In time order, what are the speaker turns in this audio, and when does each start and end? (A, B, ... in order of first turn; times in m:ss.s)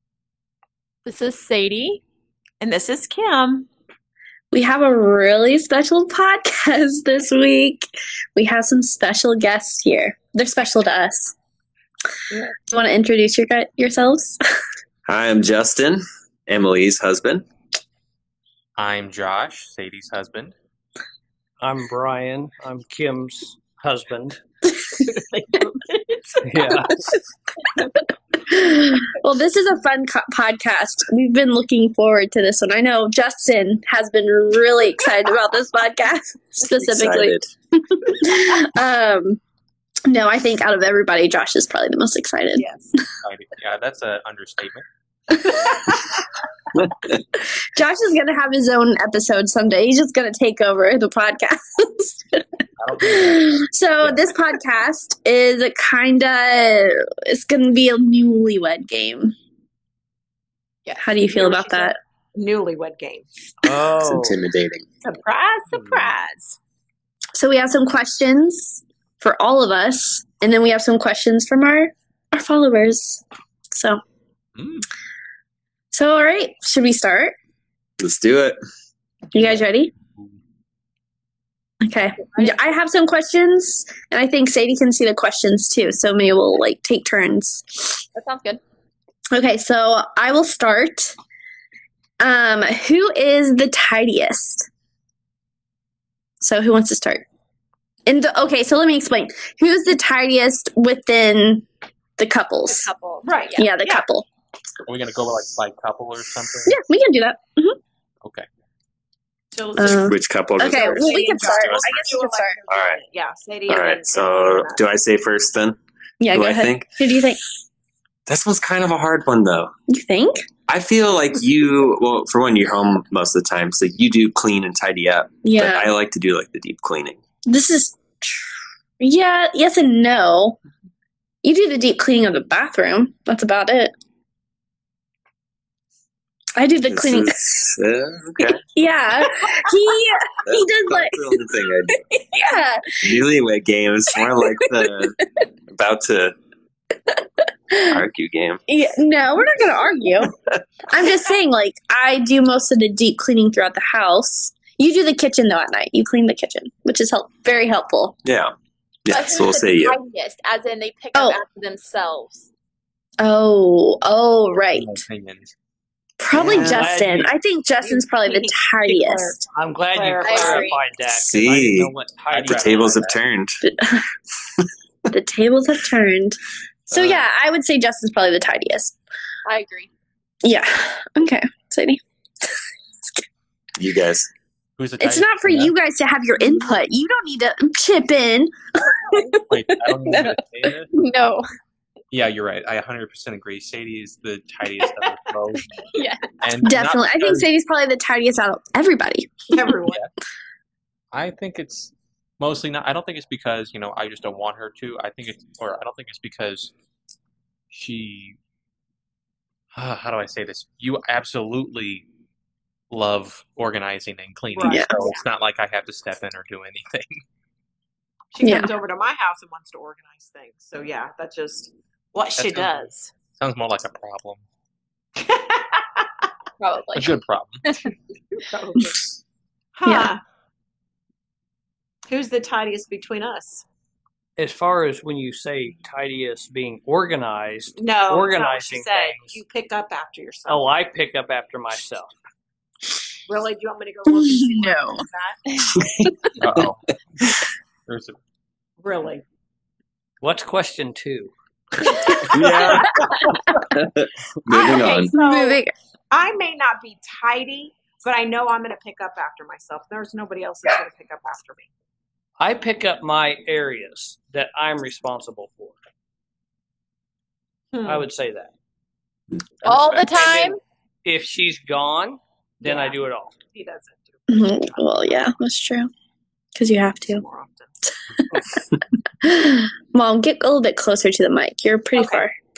0:01.0-0:02.0 A
0:02.6-0:03.7 B
0:04.5-0:11.4 C
0:12.6-0:14.4 C
0:15.0-0:17.4 D
0:18.8-0:20.5 E
0:21.6-0:24.4 F
0:25.0-0:26.9 B
0:26.4-0:27.0 F
0:28.4-0:39.4 C
0:36.6-0:37.4 D
0:40.0-0:42.7 C
0:42.6-0:42.9 B
0:43.2-0:44.8 E
0:45.7-0:46.1 B
0:46.7-0:47.2 D
0:47.7-0:52.4 C
0:52.8-0:54.3 E
0:53.0-0:59.3 C
1:00.9-1:01.2 A
1:01.0-1:02.0 C
1:01.3-1:03.3 B
1:03.6-1:04.4 F
1:04.0-1:04.9 D
1:05.0-1:06.6 B
1:05.7-1:06.1 E
1:07.3-1:14.0 C
1:14.6-1:14.9 E
1:15.9-1:17.4 C
1:18.0-1:18.6 D
1:19.3-1:19.9 C
1:19.4-1:19.7 E
1:21.8-1:28.0 C
1:22.2-1:22.6 A
1:28.1-1:28.6 A
1:29.3-1:31.1 C
1:32.2-1:34.7 C
1:36.4-1:37.2 C
1:38.0-1:41.7 C
1:42.2-1:42.9 C
1:42.7-1:43.7 A
1:43.2-1:44.0 B
1:43.6-1:44.2 C
1:44.9-1:46.8 E
1:46.7-1:47.8 C
1:49.5-1:50.0 B
1:49.8-1:52.6 C
1:49.8-1:52.1 D
1:50.6-1:54.8 B
1:52.7-1:53.0 D
1:53.7-1:55.8 D
1:56.2-1:57.4 C
1:56.3-1:56.9 D
1:58.2-1:59.7 D
1:59.9-2:00.5 C
2:00.7-2:07.2 D
2:05.4-2:05.9 C
2:07.4-2:08.5 C
2:09.0-2:10.6 C
2:11.4-2:13.9 C
2:16.6-2:17.5 C
2:16.8-2:18.6 D
2:18.5-2:23.0 C
2:20.4-2:22.0 D
2:23.0-2:26.3 D
2:24.3-2:25.0 C
2:27.7-2:28.0 C
2:27.8-2:28.6 D
2:28.7-2:30.3 C
2:30.9-2:38.2 C
2:38.2-2:38.5 D
2:39.1-2:40.0 D
2:39.1-2:42.5 A
2:41.1-2:41.4 C
2:43.2-2:45.0 C
2:44.7-2:45.5 E
2:46.2-2:49.4 C
2:46.3-2:47.3 F
2:47.8-2:50.8 B
2:49.5-2:53.1 F
2:50.2-2:50.8 A
2:51.1-2:51.9 D
2:52.3-2:53.2 E
2:52.4-2:53.6 D
2:53.6-2:54.1 C
2:55.1-2:56.4 C
2:56.9-2:57.2 E
2:56.9-2:58.9 C
2:59.4-2:59.9 A
3:00.4-3:02.0 C
3:03.8-3:04.3 D
3:04.8-3:05.7 E
3:05.0-3:08.5 C
3:09.1-3:10.4 C
3:09.5-3:10.9 E
3:10.9-3:11.4 A
3:12.1-3:15.8 E
3:15.9-3:16.3 A
3:16.4-3:17.5 E
3:16.6-3:19.7 C
3:19.5-3:20.0 B
3:21.1-3:26.7 E
3:27.7-3:28.4 E
3:29.8-3:32.1 E
3:32.9-3:37.2 E
3:34.5-3:35.2 B
3:34.7-3:34.9 C
3:38.3-3:43.1 B
3:38.4-3:38.7 C
3:42.4-3:44.4 E
3:45.2-3:46.2 B
3:46.6-3:47.9 A
3:46.9-3:47.6 E
3:48.3-3:49.0 B
3:49.8-3:50.2 B
3:49.8-3:50.1 C
3:52.1-3:53.6 B
3:54.4-3:59.4 F
3:57.8-4:00.7 B
4:00.5-4:02.1 F
4:03.3-4:05.4 B
4:04.1-4:05.0 C
4:05.8-4:06.7 D
4:06.4-4:07.3 E
4:07.9-4:08.2 E
4:08.8-4:09.2 B
4:10.2-4:12.3 F
4:12.3-4:15.1 D
4:14.5-4:15.7 C
4:14.6-4:21.7 B
4:22.4-4:25.8 F
4:27.7-4:28.1 B
4:27.8-4:28.5 F
4:29.6-4:30.6 A
4:29.6-4:33.3 F
4:32.6-4:33.0 B
4:33.5-4:35.3 B
4:34.3-4:35.9 C
4:36.6-4:37.2 C
4:37.0-4:37.7 B
4:38.3-4:38.7 C
4:39.2-4:42.3 C
4:41.9-4:42.2 B